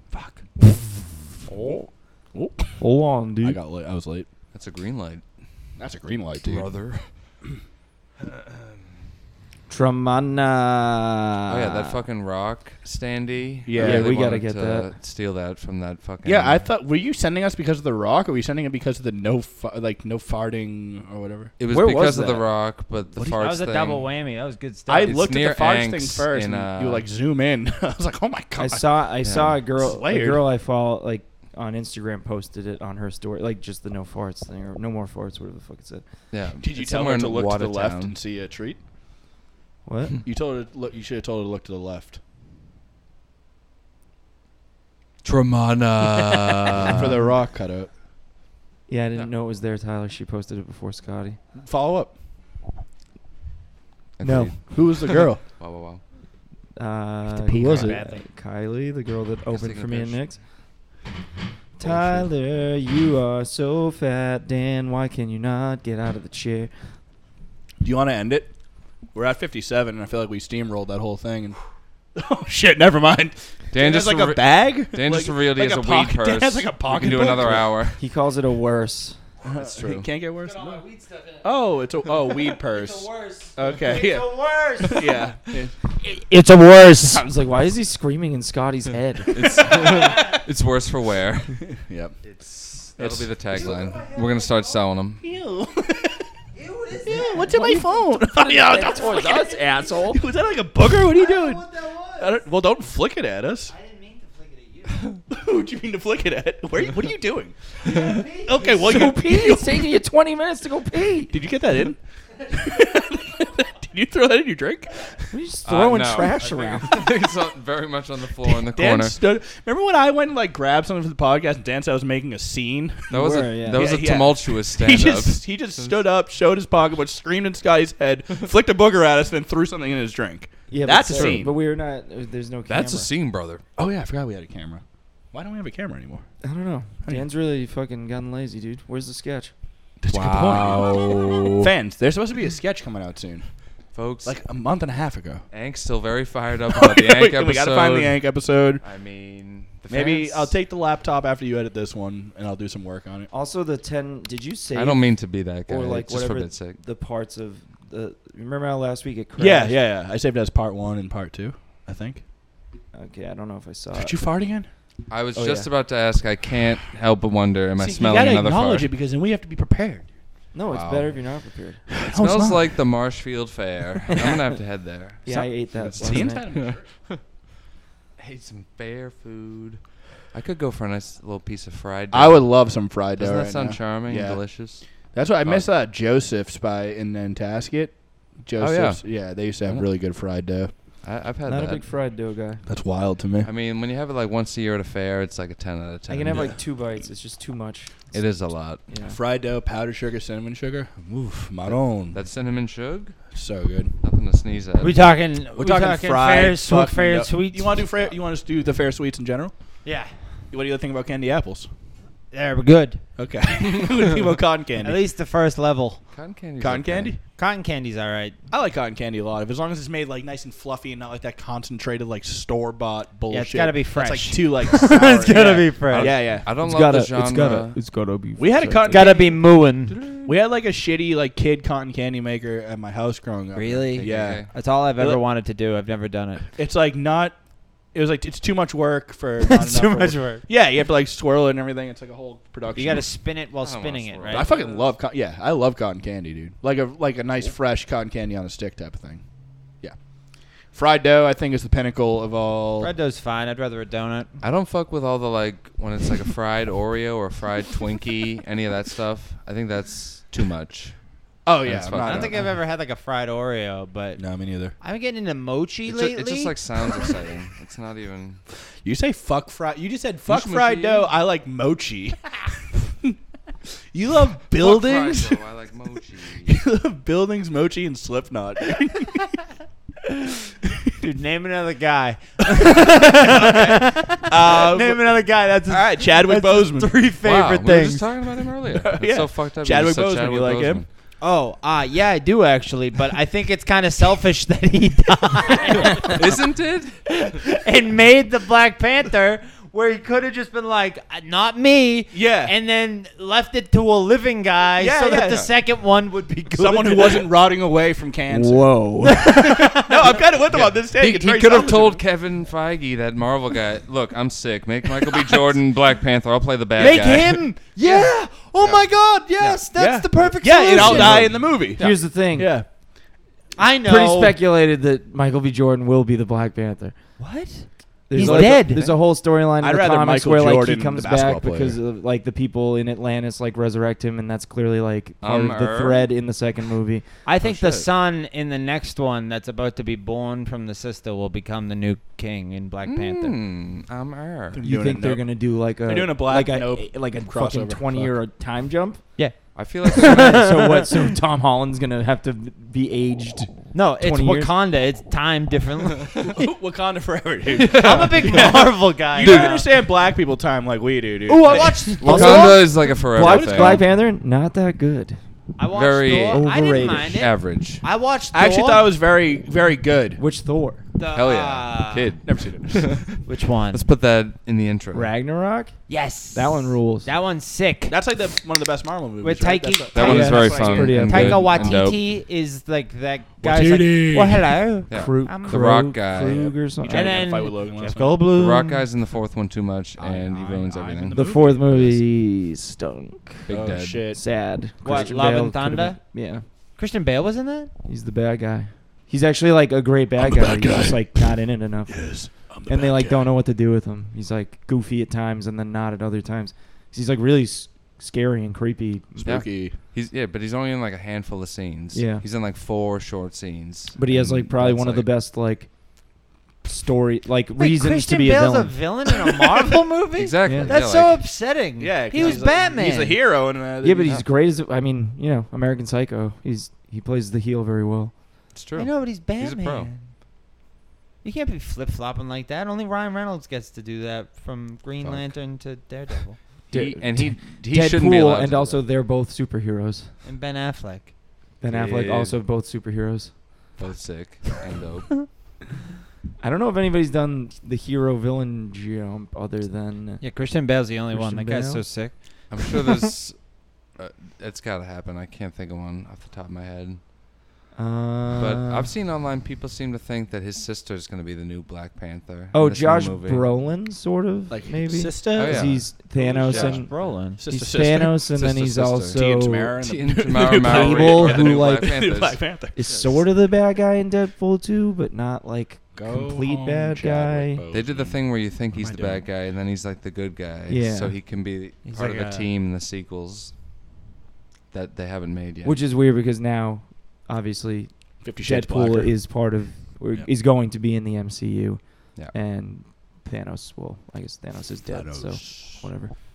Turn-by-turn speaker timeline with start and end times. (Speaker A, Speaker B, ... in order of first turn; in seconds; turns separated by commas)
Speaker A: 0.1-0.5, Speaker A: 1.5-1.8, Speaker B: 2.3-2.8, Speaker C: 2.8-3.6, Speaker B: 3.4-4.3, Speaker D: 4.5-5.2, Speaker B: 5.8-6.7, Speaker D: 6.4-7.1, Speaker C: 9.7-12.0, Speaker D: 11.5-16.7, Speaker B: 13.7-14.2, Speaker C: 13.8-14.9, Speaker B: 16.2-21.5, Speaker D: 21.6-24.1, Speaker C: 21.7-22.5, Speaker A: 23.4-25.2, Speaker B: 24.9-30.4, Speaker D: 25.0-27.1, Speaker C: 28.6-36.0, Speaker D: 29.2-29.6, Speaker D: 36.3-38.1, Speaker B: 36.6-38.8, Speaker C: 39.9-40.2, Speaker B: 40.2-42.2, Speaker D: 45.2-47.1, Speaker B: 46.8-47.9, Speaker C: 48.9-51.4, Speaker B: 51.5-52.2, Speaker D: 54.2-56.0, Speaker C: 54.2-54.6, Speaker B: 54.7-55.4, Speaker C: 56.8-60.4, Speaker A: 57.4-58.3, Speaker B: 57.5-58.0, Speaker D: 59.5-60.3, Speaker C: 61.8-66.7, Speaker D: 61.8-62.3, Speaker B: 67.8-68.5, Speaker B: 69.1-71.6, Speaker B: 72.2-77.7, Speaker D: 73.7-78.0, Speaker C: 78.0-79.2, Speaker B: 79.4-80.8, Speaker D: 79.6-80.1, Speaker A: 80.4-81.5, Speaker B: 81.4-85.7, Speaker A: 82.2-85.3, Speaker A: 86.0-87.2, Speaker C: 87.0-89.8, Speaker D: 89.3-91.7, Speaker B: 91.7-92.2, Speaker D: 92.2-95.2, Speaker B: 93.0-94.0, Speaker A: 93.5-94.8, Speaker B: 95.2-96.3, Speaker A: 96.5-97.8, Speaker B: 97.0-99.5, Speaker C: 97.5-100.2, Speaker A: 98.7-99.9, Speaker B: 100.1-103.7, Speaker A: 101.0-102.4, Speaker A: 103.7-105.2, Speaker B: 105.3-109.9, Speaker A: 107.8-108.9, Speaker C: 108.6-111.3, Speaker B: 111.3-115.1, Speaker C: 115.3-116.9, Speaker D: 115.7-119.2, Speaker A: 116.5-117.0, Speaker B: 118.4-131.6, Speaker D: 123.1-126.0, Speaker C: 123.1-123.9, Speaker C: 130.7-133.1, Speaker D: 131.1-131.4, Speaker D: 132.7-133.6, Speaker B: 133.8-136.3, Speaker C: 136.4-139.5, Speaker B: 140.0-143.5, Speaker D: 140.1-141.7, Speaker D: 143.9-144.4, Speaker B: 144.2-145.4, Speaker D: 145.5-150.6, Speaker B: 146.7-148.8, Speaker B: 149.9-153.3, Speaker C: 153.3-159.8, Speaker D: 154.7-156.8, Speaker B: 159.4-162.2, Speaker C: 162.9-164.2, Speaker B: 163.9-164.7, Speaker D: 165.1-168.9, Speaker C: 165.3-165.7, Speaker B: 167.8-170.1, Speaker C: 170.5-171.8, Speaker D: 170.7-171.2, Speaker B: 171.9-172.8, Speaker D: 172.0-177.2, Speaker C: 175.2-176.5, Speaker B: 175.3-176.9, Speaker D: 178.2-182.5, Speaker B: 182.1-190.7, Speaker D: 183.1-184.9, Speaker D: 185.4-185.7, Speaker D: 188.6-189.9, Speaker D: 191.0-191.8, Speaker C: 191.4-192.6, Speaker B: 192.7-193.5, Speaker D: 193.4-196.6, Speaker C: 196.1-199.2, Speaker B: 196.3-196.6, Speaker D: 198.1-198.8, Speaker B: 199.1-202.2, Speaker D: 201.7-203.3, Speaker B: 203.3-203.9, Speaker D: 204.0-204.9, Speaker A: 204.8-207.9, Speaker B: 205.5-209.8, Speaker A: 209.8-210.3, Speaker B: 210.5-211.7, Speaker A: 212.3-213.1, Speaker B: 213.2-215.0, Speaker A: 214.8-216.1, Speaker D: 216.1-217.1, Speaker B: 216.6-217.2, Speaker A: 217.3-218.4, Speaker B: 218.5-226.5, Speaker A: 223.3-226.3, Speaker D: 225.9-227.8, Speaker C: 226.5-229.1, Speaker B: 228.4-229.4, Speaker A: 228.9-230.2, Speaker D: 229.9-230.3, Speaker B: 230.2-235.2, Speaker A: 233.5-236.5, Speaker D: 234.0-234.5, Speaker B: 236.6-243.1, Speaker A: 239.4-240.4, Speaker A: 242.7-244.5, Speaker D: 243.6-244.9, Speaker B: 244.3-250.0, Speaker B: 250.6-252.9, Speaker A: 252.8-254.3, Speaker D: 254.4-262.5, Speaker B: 261.4-262.5, Speaker A: 262.0-267.2, Speaker B: 264.2-264.7, Speaker D: 265.9-268.4, Speaker B: 268.8-273.2, Speaker D: 270.3-271.1, Speaker B: 273.9-275.4, Speaker D: 274.6-276.6, Speaker B: 276.4-279.3, Speaker B: 280.7-280.9, Speaker A: 281.0-288.1, Speaker B: 282.5-287.0, Speaker D: 287.2-290.9, Speaker B: 288.7-290.8, Speaker A: 291.2-296.4, Speaker D: 295.9-297.2, Speaker A: 297.1-307.3, Speaker B: 302.1-302.5, Speaker B: 304.8-305.5, Speaker B: 306.5-312.0, Speaker C: 308.3-309.2, Speaker A: 309.1-310.2, Speaker D: 310.5-317.5, Speaker A: 316.8-321.4, Speaker B: 316.8-317.1, Speaker D: 318.6-318.9, Speaker B: 319.7-322.7, Speaker D: 320.7-321.4, Speaker C: 321.2-322.6, Speaker A: 323.6-324.4, Speaker C: 323.8-327.2, Speaker A: 327.2-328.9, Speaker C: 328.1-337.1, Speaker B: 328.2-328.5, Speaker B: 329.6-331.8, Speaker D: 335.2-336.1, Speaker A: 337.2-343.4, Speaker D: 337.4-337.9, Speaker D: 342.9-344.6, Speaker B: 344.5-348.2, Speaker C: 344.6-349.4, Speaker A: 349.2-350.8, Speaker D: 349.5-350.6, Speaker C: 350.0-354.5, Speaker A: 353.7-356.2, Speaker B: 356.2-363.9, Speaker D: 357.5-359.6, Speaker A: 357.7-359.6, Speaker A: 361.3-362.9, Speaker D: 362.0-363.8, Speaker C: 362.1-365.2, Speaker A: 365.6-368.9, Speaker D: 365.7-367.9, Speaker C: 366.2-367.2, Speaker B: 368.3-370.2, Speaker C: 370.2-370.8, Speaker A: 370.9-372.2, Speaker D: 371.1-375.1, Speaker B: 372.2-373.0, Speaker A: 373.3-373.9, Speaker C: 374.9-377.1, Speaker A: 375.9-378.1, Speaker B: 377.9-381.0, Speaker A: 379.2-385.8, Speaker D: 379.9-382.0, Speaker C: 380.0-381.8, Speaker B: 383.4-384.6, Speaker D: 384.9-386.6, Speaker C: 384.9-387.3, Speaker B: 386.8-388.2, Speaker A: 386.9-388.9, Speaker D: 388.3-392.0, Speaker B: 390.0-391.6, Speaker C: 391.1-396.4, Speaker B: 393.5-394.2, Speaker A: 394.8-396.1, Speaker A: 396.8-397.7, Speaker C: 397.9-409.4, Speaker B: 400.2-401.4, Speaker B: 401.9-403.3, Speaker B: 409.2-409.8, Speaker D: 409.2-415.1, Speaker C: 411.9-412.2, Speaker C: 413.9-418.8, Speaker A: 417.6-423.2, Speaker D: 420.2-421.2, Speaker C: 420.4-420.7, Speaker B: 421.8-424.2, Speaker D: 422.1-422.4, Speaker C: 423.8-428.2, Speaker D: 428.5-429.9, Speaker A: 428.8-430.0, Speaker A: 431.2-436.4, Speaker D: 435.0-435.3, Speaker D: 436.7-438.8, Speaker C: 436.7-440.1, Speaker A: 440.2-441.1, Speaker C: 441.6-443.4, Speaker D: 441.6-442.4, Speaker D: 443.8-445.4, Speaker C: 446.4-450.4, Speaker A: 450.2-453.1, Speaker C: 451.1-451.9, Speaker D: 452.5-457.0, Speaker C: 457.8-458.9, Speaker D: 458.4-463.5, Speaker C: 462.5-469.8, Speaker B: 464.5-468.3, Speaker D: 465.4-465.9, Speaker D: 466.5-466.7, Speaker A: 466.5-467.4, Speaker D: 468.3-469.3, Speaker B: 469.0-473.3, Speaker D: 469.8-473.2, Speaker C: 470.6-472.1, Speaker C: 472.8-477.6, Speaker B: 475.9-479.3, Speaker D: 477.7-483.5, Speaker C: 480.7-481.2, Speaker A: 481.8-482.5, Speaker D: 484.7-485.8, Speaker C: 485.6-496.1, Speaker B: 488.2-489.4, Speaker B: 494.9-495.9